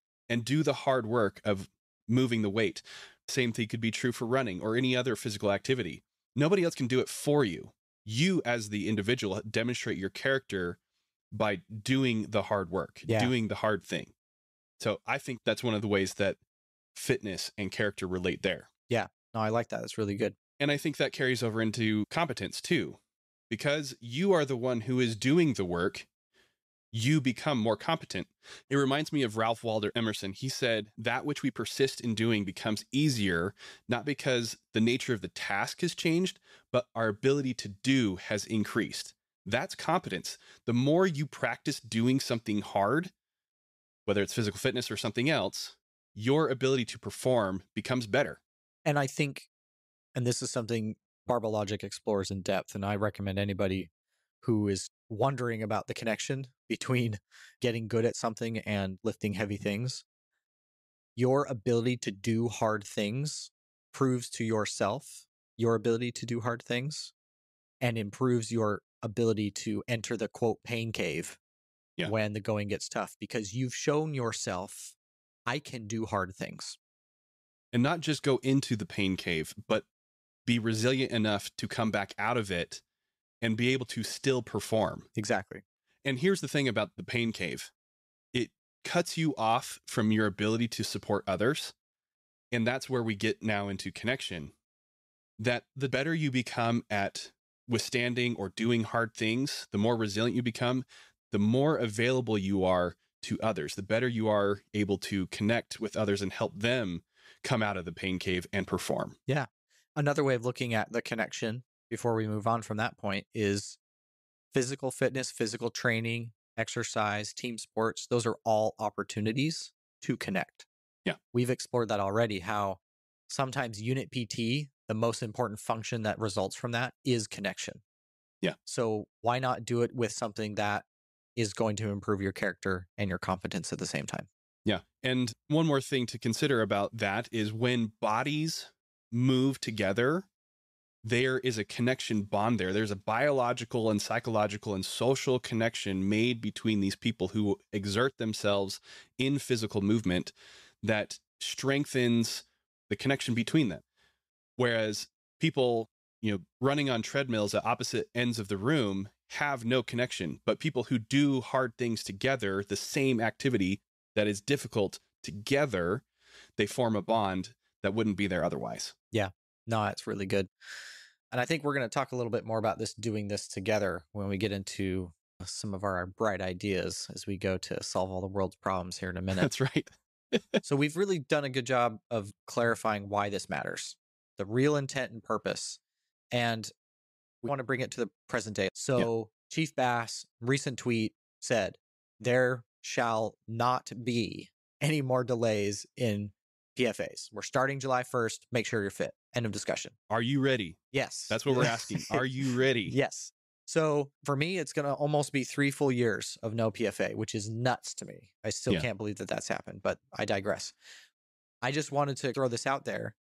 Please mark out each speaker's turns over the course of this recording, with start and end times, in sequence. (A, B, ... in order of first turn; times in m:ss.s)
0:00.3-0:10.8 A
0:11.3-0:14.1 A
0:13.1-0:13.3 B
0:14.8-0:16.4 A
0:16.9-0:18.7 A
0:18.9-0:20.4 B
0:20.6-0:23.0 A
0:23.5-0:26.1 A
0:26.9-0:43.1 A
0:44.0-0:48.4 A
0:48.8-0:49.5 B
0:50.2-0:53.9 B
0:54.4-1:00.0 B
1:01.2-1:07.1 B
1:07.8-1:11.4 B
1:12.0-1:14.9 B
1:15.5-1:16.8 B
1:17.7-1:19.8 A
1:20.4-1:22.8 A
1:23.4-1:25.1 A
1:25.2-1:25.6 B
1:26.0-1:27.7 A
1:28.3-1:31.7 A
1:32.5-1:34.5 A
1:35.4-1:49.2 A
1:49.3-1:53.8 B
1:54.5-2:00.7 B
2:01.3-2:07.8 B
2:08.6-2:14.3 B
2:14.6-2:20.3 A
2:21.0-2:33.8 A
2:34.6-2:46.0 A
2:46.6-2:48.9 A
2:49.1-2:50.5 B
2:51.3-2:59.5 B
2:59.4-3:00.6 A
3:00.6-3:05.8 B
3:06.3-3:06.7 B
3:07.4-3:19.9 B
3:20.1-3:23.0 A
3:20.9-3:22.2 B
3:22.9-3:30.7 B
3:31.6-3:33.1 B